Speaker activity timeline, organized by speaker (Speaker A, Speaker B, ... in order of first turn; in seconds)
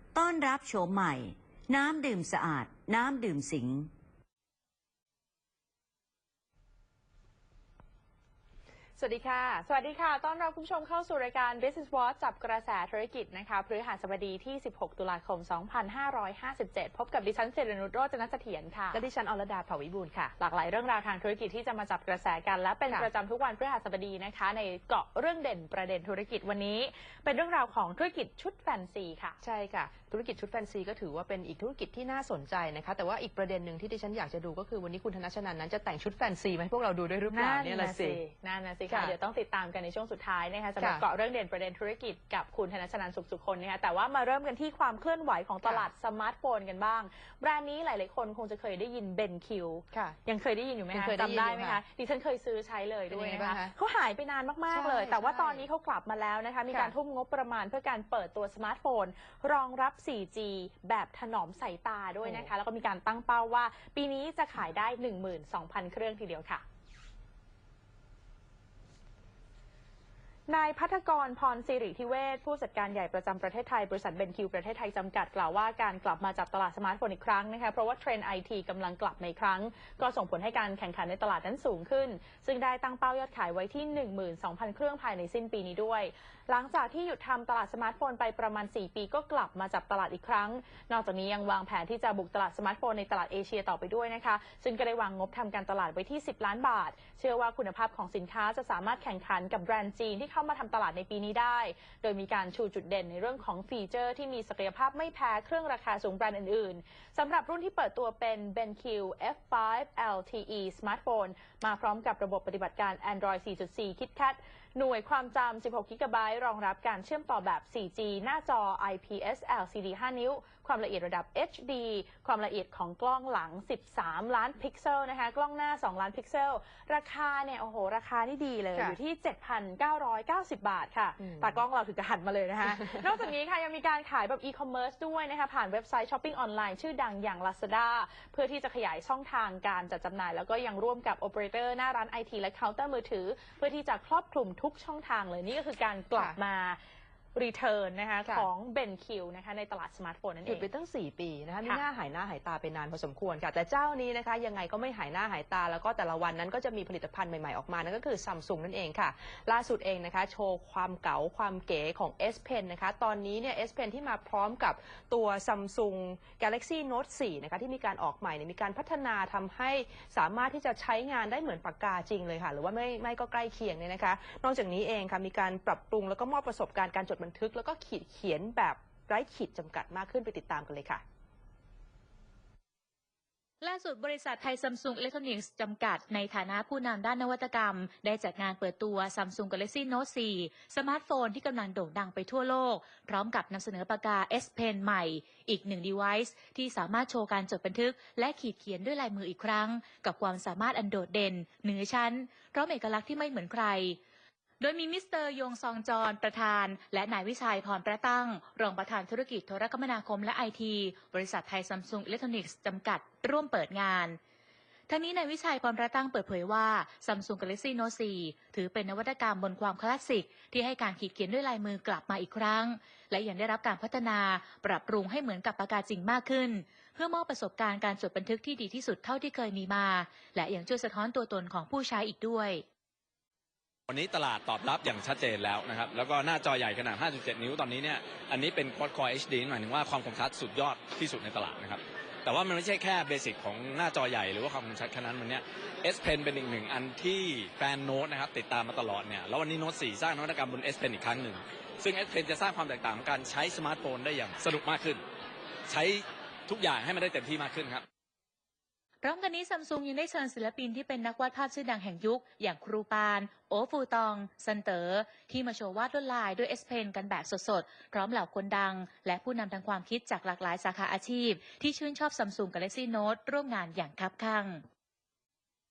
Speaker A: 0.1-3.9
Speaker B: 9.0-19.0, 20.4-29.4, 37.3-66.6, 70.5-146.8, 147.3-150.7
Speaker C: 18.9-20.3, 29.4-38.2, 38.9-39.1, 40.8-41.0, 45.6-45.9, 49.9-50.2, 50.9-51.8, 53.1-53.7, 54.7-55.6, 62.2-62.5, 131.2-131.6, 132.6-133.3, 150.4-181.0
Speaker D: 183.6-204.0, 204.6-214.2, 214.9-232.6, 259.0-274.6
Speaker E: 233.9-255.0, 255.7-257.8